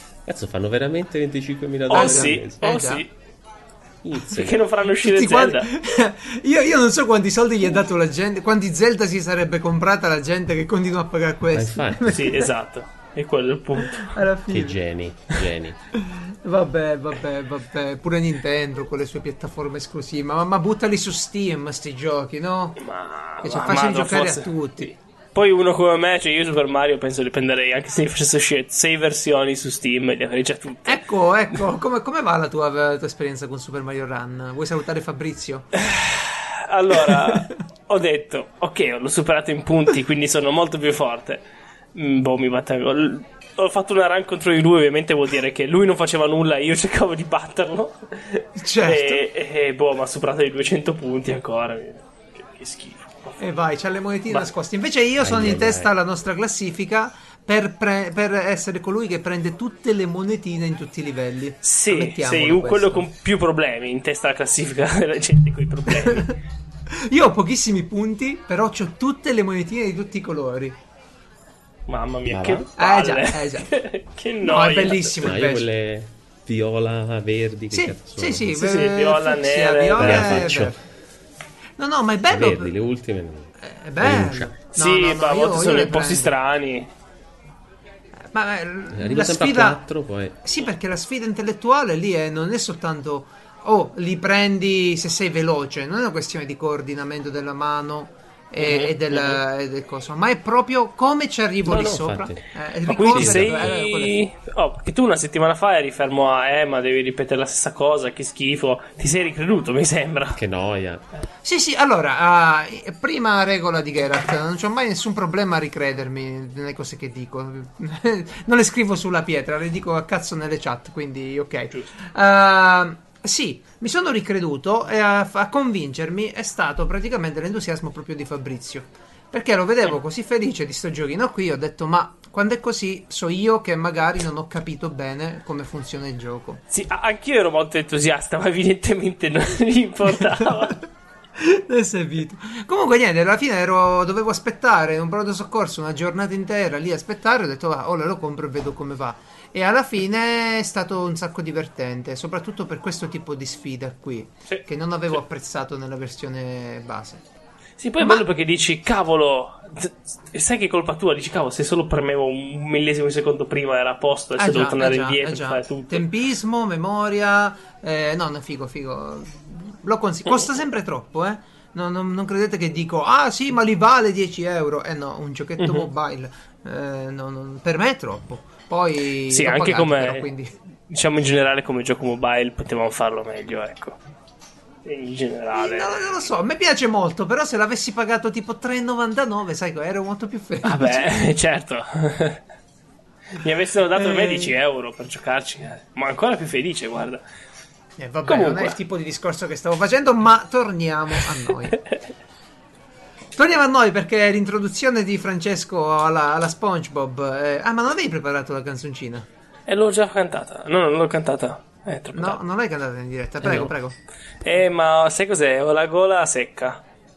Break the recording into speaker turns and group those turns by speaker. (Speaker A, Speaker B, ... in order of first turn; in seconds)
Speaker A: 0.2-2.7, 4.0-4.6, 11.5-12.2, 14.5-15.8, 55.2-55.9, 72.3-72.7, 75.2-78.5, 80.0-80.8, 82.3-84.5, 88.9-90.4, 101.7-103.7, 110.3-111.0
Speaker B: 1.9-3.1, 4.3-5.7, 12.1-14.1, 22.8-31.0, 35.8-41.4, 41.9-53.4, 61.6-66.3, 71.9-75.1, 78.5-80.5, 84.7-86.9, 98.6-99.4, 102.9-110.4, 136.7-140.8, 157.8-166.1, 175.6-175.9, 179.3-180.3, 180.9-184.0, 184.8-186.1, 190.6-192.4, 193.4-197.2, 198.2-198.8, 209.7-212.4, 214.4-216.8
Speaker C: 1.9-3.0, 5.0-12.5, 13.8-14.8, 16.0-22.8, 23.4-24.9, 30.9-35.7, 48.6-49.2, 53.4-63.0, 66.0-66.3, 66.9-70.8, 72.8-73.7, 74.4-75.6, 77.7-80.8, 81.8-82.7, 83.6-86.3, 88.3-89.9, 90.4-104.2, 111.4-136.6, 141.4-157.2, 158.0-158.2, 164.4-180.5, 185.5-191.2, 193.9-194.5, 198.0-201.8, 203.3-209.2, 212.1-213.9